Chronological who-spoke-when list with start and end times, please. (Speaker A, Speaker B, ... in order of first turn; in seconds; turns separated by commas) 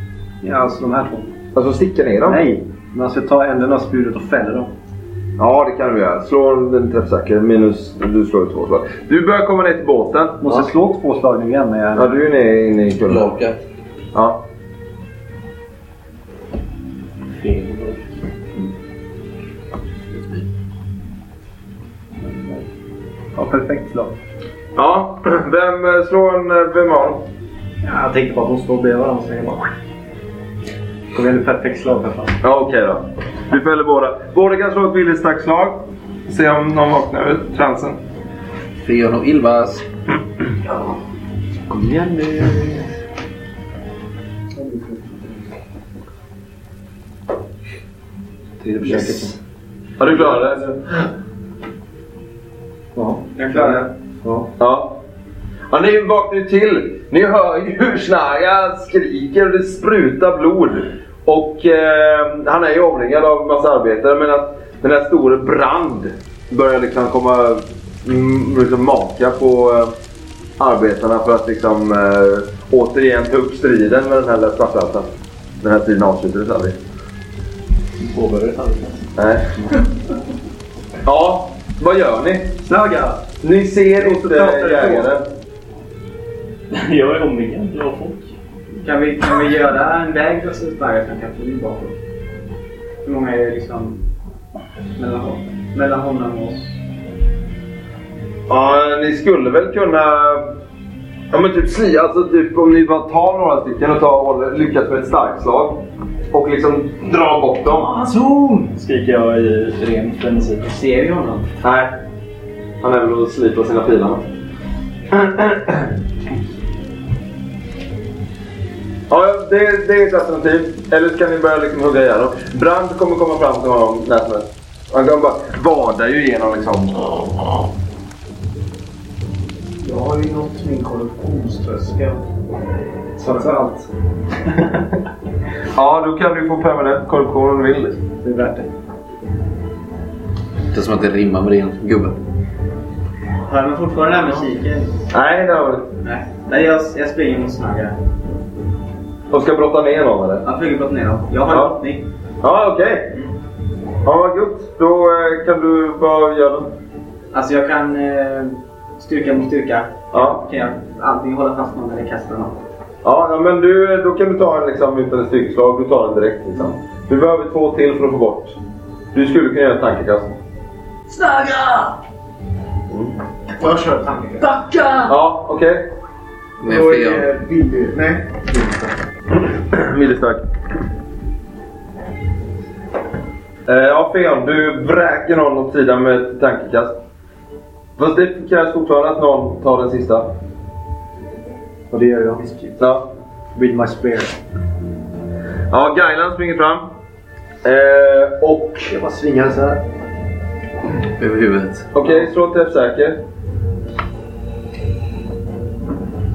Speaker A: 0.4-1.3, Speaker B: 1.6-2.4, Speaker A: 2.2-4.7, Speaker B: 5.4-10.4, Speaker A: 10.4-12.2, Speaker B: 11.9-13.2, Speaker C: 13.1-13.6, Speaker B: 14.1-14.4, Speaker D: 17.3-18.1, Speaker C: 20.1-20.4, Speaker A: 23.3-24.1, Speaker B: 24.8-27.2, Speaker A: 27.8-29.7, Speaker A: 31.1-32.3, Speaker B: 32.4-38.0, Speaker C: 38.8-39.8, Speaker A: 41.7-42.8, Speaker A: 44.6-45.1, Speaker A: 48.6-49.4, Speaker D: 48.9-49.2, Speaker B: 50.0-51.0, Speaker A: 50.1-50.7, Speaker A: 52.9-54.5, Speaker B: 54.6-55.0, Speaker B: 55.7-69.9, Speaker B: 70.6-75.1, Speaker B: 75.6-76.8, Speaker D: 78.0-79.1, Speaker B: 79.2-79.5, Speaker B: 81.0-82.6, Speaker A: 82.6-83.2, Speaker B: 83.4-85.2, Speaker A: 84.0-85.1, Speaker D: 86.7-88.3, Speaker E: 88.8-91.9, Speaker E: 93.0-94.0, Speaker E: 95.0-96.8, Speaker B: 98.5-100.5, Speaker B: 101.3-107.9, Speaker D: 107.7-110.6, Speaker E: 110.6-111.5, Speaker B: 111.6-111.9, Speaker B: 112.8-114.3, Speaker B: 115.1-115.9, Speaker B: 119.1-127.3, Speaker F: 129.8-132.2, Speaker A: 133.2-133.9, Speaker B: 135.7-138.0, Speaker A: 138.2-138.7, Speaker C: 140.7-142.2, Speaker E: 143.5-144.9, Speaker B: 145.1-145.9, Speaker E: 146.0-148.0, Speaker B: 149.3-150.4, Speaker E: 150.4-152.1, Speaker B: 151.5-151.7, Speaker B: 152.4-153.1, Speaker B: 154.1-156.7, Speaker E: 157.3-162.5, Speaker B: 160.1-160.4, Speaker B: 163.0-168.6, Speaker B: 169.1-170.3, Speaker C: 171.1-171.9, Speaker F: 173.6-174.6, Speaker C: 174.4-175.1, Speaker B: 175.1-175.8, Speaker C: 176.6-177.3, Speaker F: 176.6-178.7, Speaker B: 179.3-180.4, Speaker B: 183.7-186.9, Speaker B: 188.0-190.3, Speaker A: 191.9-192.7, Speaker B: 192.8-193.1, Speaker A: 193.6-194.3, Speaker B: 195.7-196.9, Speaker B: 197.6-198.9, Speaker A: 198.9-199.8, Speaker C: 201.1-201.9, Speaker B: 201.9-203.2